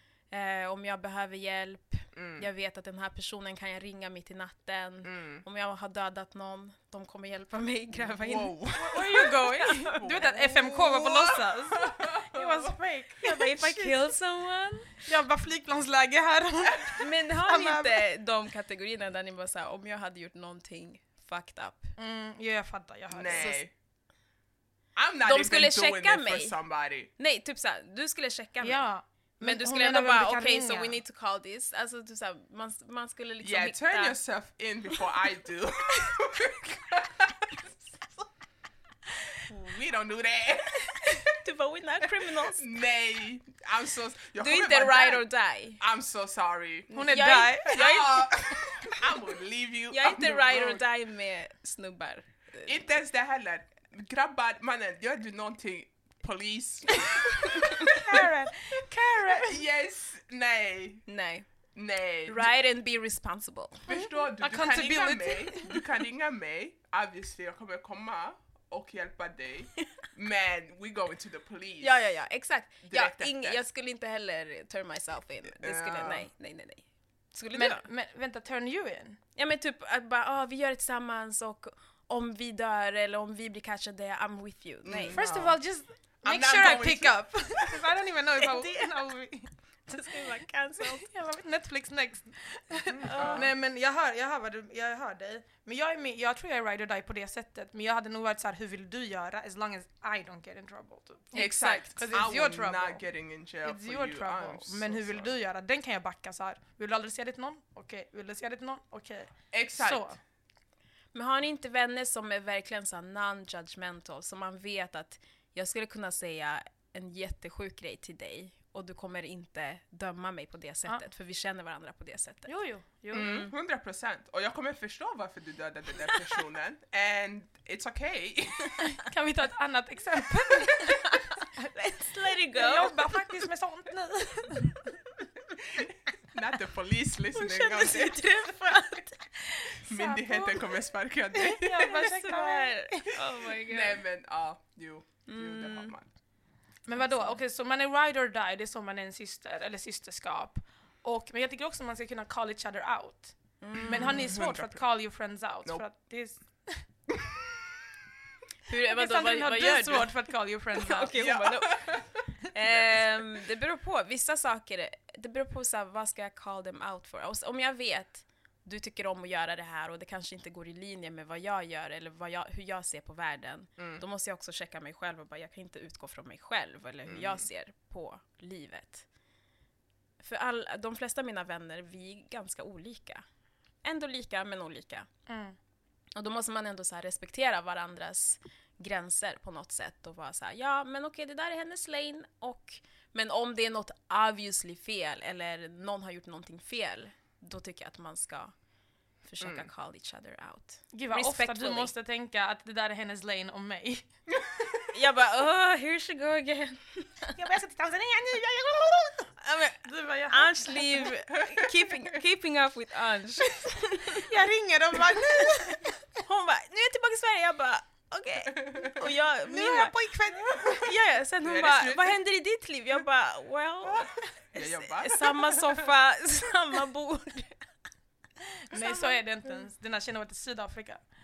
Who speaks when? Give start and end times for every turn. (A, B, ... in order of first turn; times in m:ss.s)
0:00.3-0:10.7 A
0:02.1-0:02.5 B
0:05.0-0:05.4 B
0:08.0-0:09.3 B
0:08.7-0:14.1 C
0:10.0-0:12.7 B
0:13.2-0:15.0 A
0:15.0-0:18.0 C
0:17.0-0:21.9 A
0:22.0-0:23.6 C
0:23.1-0:23.7 B
0:23.3-0:23.6 A
0:25.0-0:27.1 B
0:25.2-0:26.6 A
0:27.2-0:28.8 A
0:28.6-0:31.0 C
0:29.4-0:34.2 A
0:33.4-0:37.7 B
0:39.3-0:41.4 B
0:40.9-0:42.7 A
0:42.2-0:45.2 B
0:44.4-0:45.8 A
0:45.8-0:47.0 B
0:46.9-0:48.2 C
0:46.9-0:48.6 A
0:47.6-0:50.8 B
0:49.9-0:52.8 A
0:52.6-0:58.2 B
0:57.1-0:59.6 C
0:59.1-1:01.0 B
1:01.1-1:01.5 A
1:01.7-1:02.5 B
1:02.3-1:03.9 A
1:03.9-1:12.0 B
1:04.4-1:05.8 C
1:11.8-1:17.8 A
1:12.8-1:13.6 B
1:15.6-1:16.3 B
1:17.5-1:19.2 C
1:19.4-1:25.2 A
1:24.8-1:25.6 B
1:25.1-1:30.0 C
1:26.2-1:27.8 B
1:28.4-1:28.8 A
1:29.9-1:31.1 A
1:30.8-1:43.0 C
1:32.9-1:33.5 B
1:33.0-1:33.5 A
1:41.3-1:45.3 B
1:43.6-1:50.2 C
1:49.5-1:50.2 B
1:51.1-2:02.5 A
2:02.5-2:03.4 C
2:03.1-2:08.8 B
2:03.1-2:03.5 A
2:08.8-2:12.0 C
2:10.8-2:13.1 A
2:12.5-2:15.0 C
2:15.7-2:18.3 B
2:17.3-2:19.1 A
2:18.7-2:20.6 C
2:19.8-2:21.9 B
2:21.3-2:23.2 C
2:21.8-2:24.0 A
2:23.7-2:26.1 B
2:25.3-2:25.9 A
2:26.9-2:36.8 C
2:27.0-2:27.4 A
2:33.6-2:34.3 A
2:33.8-2:34.8 B
2:37.1-2:37.4 B
2:38.7-2:40.1 A
2:38.8-2:41.1 C
2:40.7-2:59.0 A
2:41.1-2:43.2 B
2:53.8-2:54.0 B
2:57.0-2:57.4 B
3:00.2-3:03.2 A
3:03.8-3:05.1 A
3:05.3-3:05.6 C
3:06.1-3:18.5 A
3:19.2-3:21.9 A
3:19.4-3:19.7 B
3:20.9-3:24.1 C
3:24.3-3:24.9 B
3:24.9-3:27.3 A
3:27.3-3:31.1 C
3:29.4-3:34.3 A
3:31.4-3:31.7 B
3:34.2-3:36.1 C
3:35.2-3:35.5 A
3:36.2-3:39.9 A
3:38.6-3:38.9 B
3:39.4-3:40.9 C
3:40.6-3:47.6 A
3:41.4-3:42.2 B
3:43.8-3:45.9 B
3:48.5-3:51.0 C
3:48.7-3:49.2 A